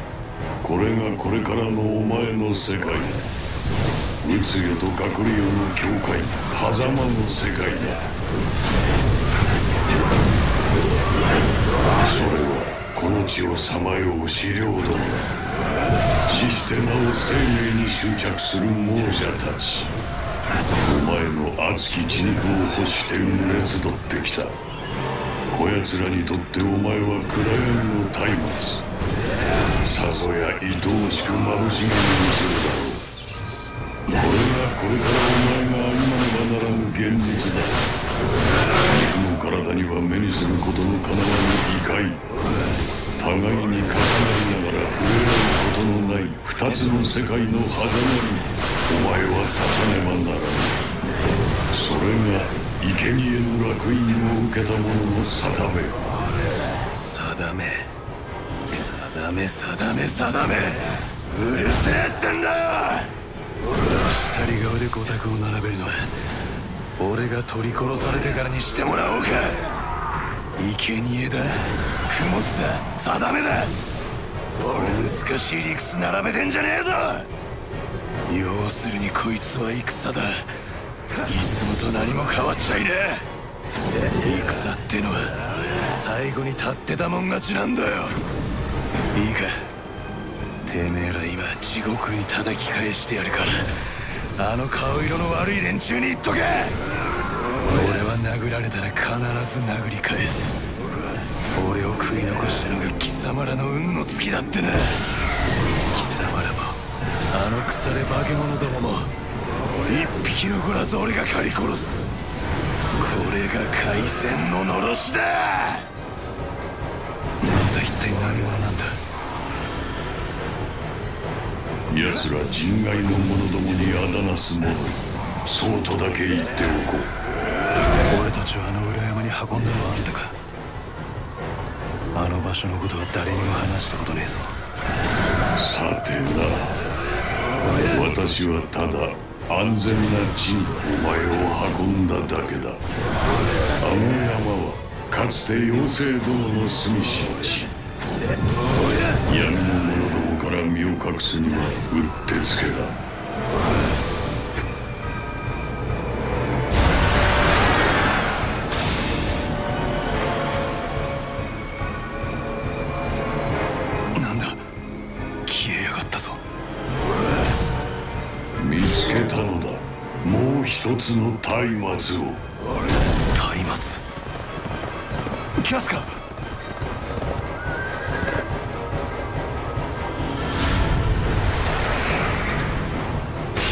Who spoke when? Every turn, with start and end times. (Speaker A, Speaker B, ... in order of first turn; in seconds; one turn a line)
Speaker A: 0.6-3.2
Speaker A: 4.2-8.0
Speaker A: 12.0-15.3
Speaker A: 16.3-19.9
Speaker A: 20.8-24.6
Speaker A: 25.5-28.9
Speaker A: 29.8-33.1
Speaker A: 34.1-37.9
Speaker A: 38.8-42.3
Speaker A: 43.2-50.8
Speaker A: 51.7-56.1
Speaker B: 56.9-57.9
Speaker B: 58.7-63.2
Speaker B: 63.8-66.3
Speaker B: 67.0-69.8
Speaker B: 70.6-73.8
Speaker B: 74.6-77.3
Speaker B: 78.3-80.6
Speaker B: 81.2-83.3
Speaker B: 83.9-88.2
Speaker B: 89.1-89.7
Speaker B: 90.6-96.9
Speaker B: 97.6-100.7
Speaker B: 101.5-105.1
Speaker B: 105.9-109.1
Speaker B: 109.8-112.1
Speaker B: 113.0-115.9
Speaker B: 117.4-119.0
Speaker A: 121.9-127.1
Speaker B: 128.1-130.4
Speaker B: 132.1-134.6
Speaker A: 135.6-136.9
Speaker A: 137.6-142.8
Speaker A: 143.8-147.7
Speaker A: 149.1-153.0
Speaker B: 164.2-164.6
Speaker B: 165.4-166.4
Speaker A: 168.6-172.4
Speaker B: 173.3-174.0
Speaker B: 175.6-176.2